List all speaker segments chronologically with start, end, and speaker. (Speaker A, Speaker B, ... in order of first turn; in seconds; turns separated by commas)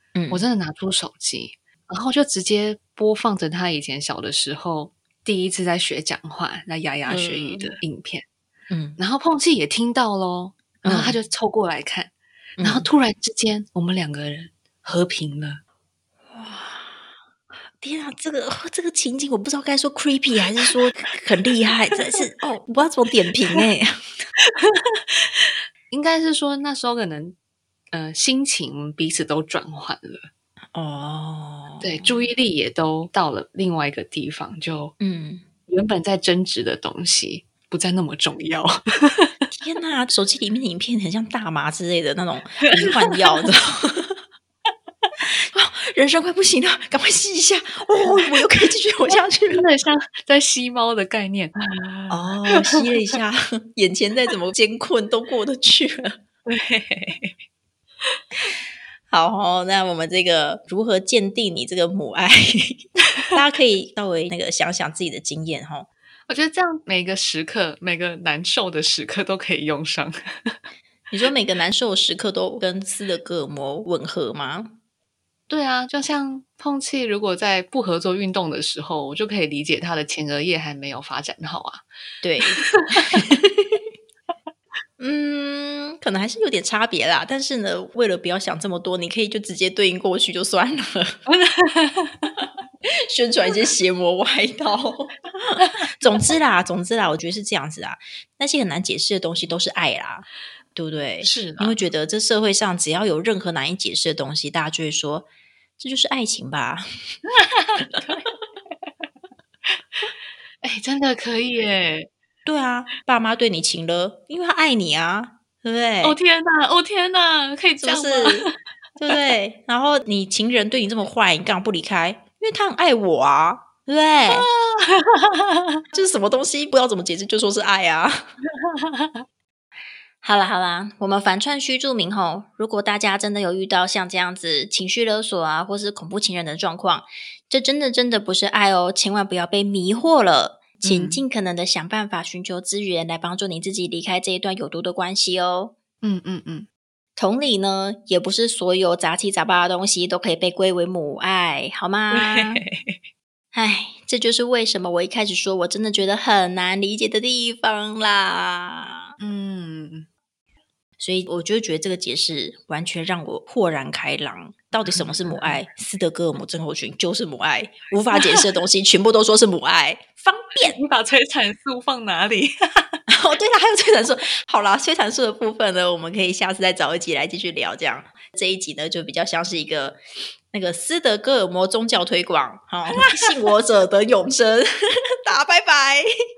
Speaker A: 0.1-0.4, Speaker B: 0.3-8.3, Speaker A: 7.1-7.8, Speaker A: 8.7-9.0, Speaker B: 9.0-15.6, Speaker A: 10.8-11.2, Speaker A: 12.6-12.9, Speaker A: 16.3-17.1, Speaker A: 17.8-24.2, Speaker B: 24.6-27.4, Speaker B: 27.9-30.3, Speaker A: 30.7-32.2, Speaker B: 31.8-34.9, Speaker A: 35.0-35.5, Speaker B: 35.7-39.3, Speaker A: 39.5-44.2, Speaker B: 42.6-43.4, Speaker A: 45.4-49.6, Speaker B: 49.1-52.9, Speaker A: 52.1-56.2, Speaker B: 56.5-57.3, Speaker A: 59.1-65.9, Speaker B: 66.3-70.6, Speaker A: 71.1-74.8, Speaker B: 75.5-81.9, Speaker A: 82.2-83.8, Speaker B: 82.4-83.2, Speaker A: 85.0-91.2, Speaker B: 91.3-92.5, Speaker A: 92.8-107.2, Speaker B: 95.6-95.9, Speaker B: 101.2-101.9, Speaker B: 107.4-108.2, Speaker B: 110.6-112.1, Speaker A: 112.5-116.2, Speaker B: 116.0-118.5, Speaker A: 117.8-118.5, Speaker A: 119.0-124.5, Speaker B: 124.3-125.6, Speaker A: 125.9-128.3, Speaker B: 128.7-129.1, Speaker A: 130.2-145.7, Speaker B: 140.8-141.2, Speaker B: 146.0-146.7, Speaker A: 147.2-152.6, Speaker B: 152.1-153.0, Speaker A: 153.5-159.1, Speaker B: 159.2-160.1, Speaker A: 161.0-170.8, Speaker B: 164.9-165.6, Speaker B: 168.2-168.4, Speaker B: 170.6-173.0, Speaker A: 173.1-180.0, Speaker A: 180.5-186.1, Speaker B: 183.0-183.3